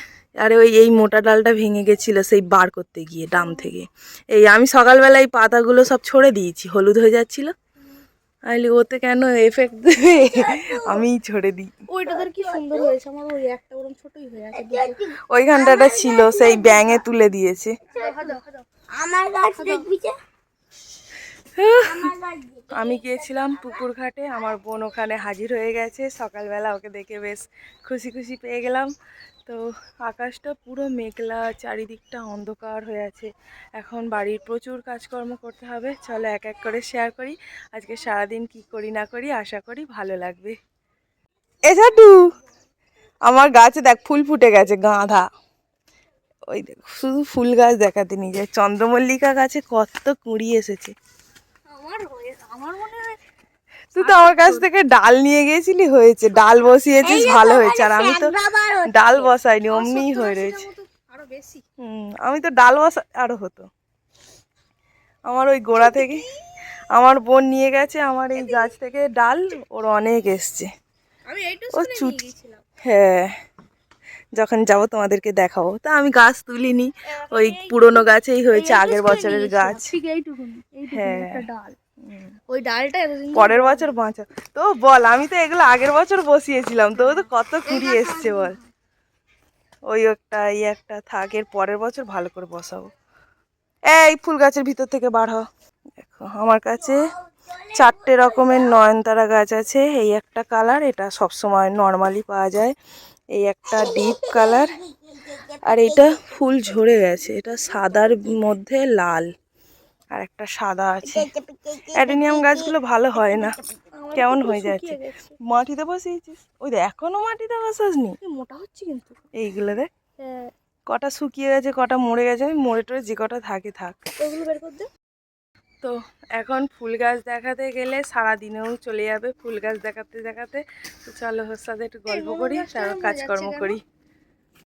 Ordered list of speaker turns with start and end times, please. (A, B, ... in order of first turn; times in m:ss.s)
0:00.4-0:07.5 A
0:08.5-0:11.7 A
0:10.2-0:11.0 B
0:11.9-0:15.0 C
0:12.1-0:12.9 B
0:14.5-0:17.0 B
0:15.3-0:17.8 A
0:17.9-0:18.6 C
0:17.9-0:18.4 B
0:18.9-0:20.1 B
0:19.6-0:19.8 C
0:21.5-0:22.1 A
0:21.8-0:23.8 B
0:22.7-0:28.9 A
0:29.4-0:40.6 A
0:41.6-0:42.3 A
0:43.2-0:45.2 A
0:46.5-0:50.9 A
0:51.7-0:53.2 C
0:53.9-0:58.3 A
0:54.0-0:54.6 C
0:57.0-0:59.3 B
0:58.9-1:00.6 A
0:59.7-1:01.6 C
1:01.8-1:03.7 A
1:05.3-1:06.3 A
1:06.9-1:10.7 A
1:08.4-1:08.7 C
1:11.3-1:12.6 C
1:11.7-1:12.2 A
1:12.8-1:13.3 A
1:14.3-1:19.9 A
1:17.3-1:21.8 C
1:20.9-1:21.4 A
1:22.0-1:22.3 A
1:22.5-1:23.9 C
1:23.3-1:28.6 A
1:27.1-1:28.6 C
1:29.9-1:32.9 A
1:33.9-1:35.4 A
1:36.0-1:37.0 A
1:36.9-1:38.6 B
1:37.7-1:42.7 A
1:43.3-1:44.7 A
1:43.8-1:46.3 B
1:45.6-1:49.3 A
1:50.1-1:51.3 A
1:51.0-1:52.7 B
1:51.9-1:53.6 A
1:53.9-1:55.3 C
1:54.1-1:58.2 A
1:58.2-1:59.2 C
1:59.3-1:59.9 A
2:00.2-2:00.5 C
2:00.9-2:04.0 A
2:04.2-2:04.9 C
2:05.8-2:13.8 A
2:12.1-2:13.8 C